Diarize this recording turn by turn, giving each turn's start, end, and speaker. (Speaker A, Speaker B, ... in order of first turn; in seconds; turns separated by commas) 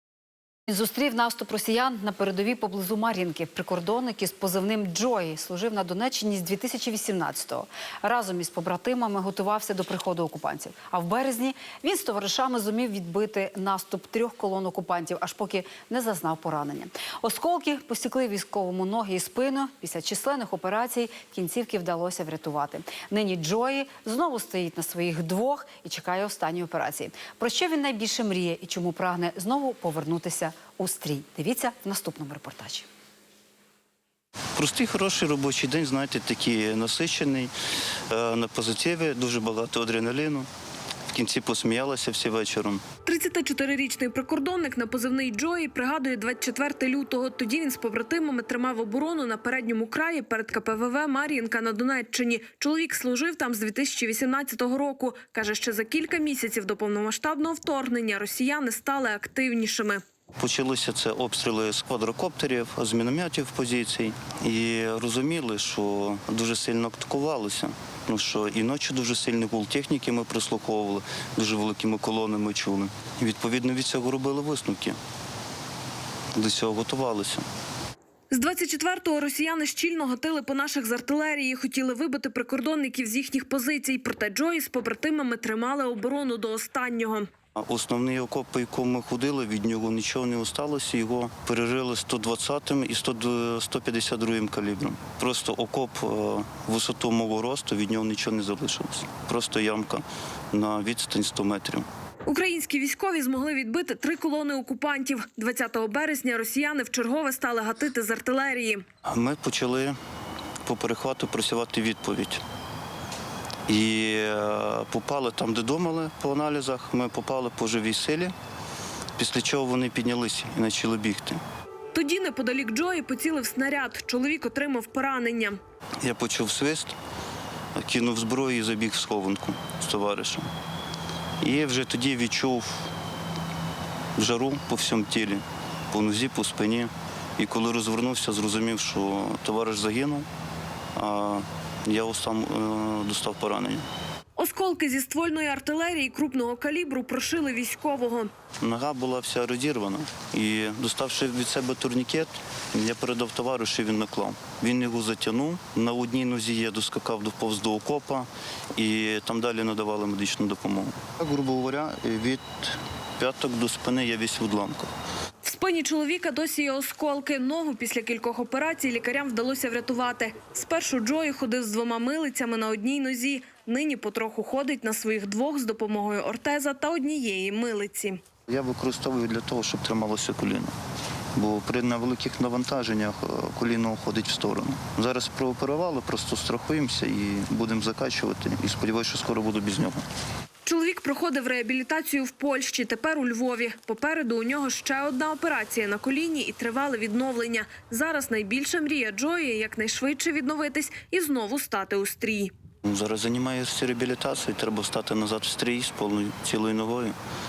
Speaker A: 0.7-32.9, Speaker B: 34.6-37.5, Speaker B: 38.1-40.5, Speaker B: 41.1-42.9, Speaker C: 43.0-60.0, Speaker B: 60.4-75.0, Speaker B: 76.3-77.5, Speaker C: 78.3-87.3, Speaker B: 87.6-101.9, Speaker C: 102.3-108.8, Speaker B: 109.1-110.0, Speaker B: 110.7-112.4, Speaker B: 113.7-118.3, Speaker B: 119.2-121.4, Speaker C: 121.9-125.6, Speaker B: 126.0-127.0, Speaker B: 127.8-130.5, Speaker B: 131.4-132.9, Speaker B: 134.2-140.3, Speaker B: 141.0-143.9, Speaker C: 144.4-148.3, Speaker B: 148.6-164.9, Speaker C: 165.4-178.2, Speaker B: 178.5-180.7, Speaker B: 181.3-190.1, Speaker C: 190.7-202.5, Speaker B: 202.8-207.2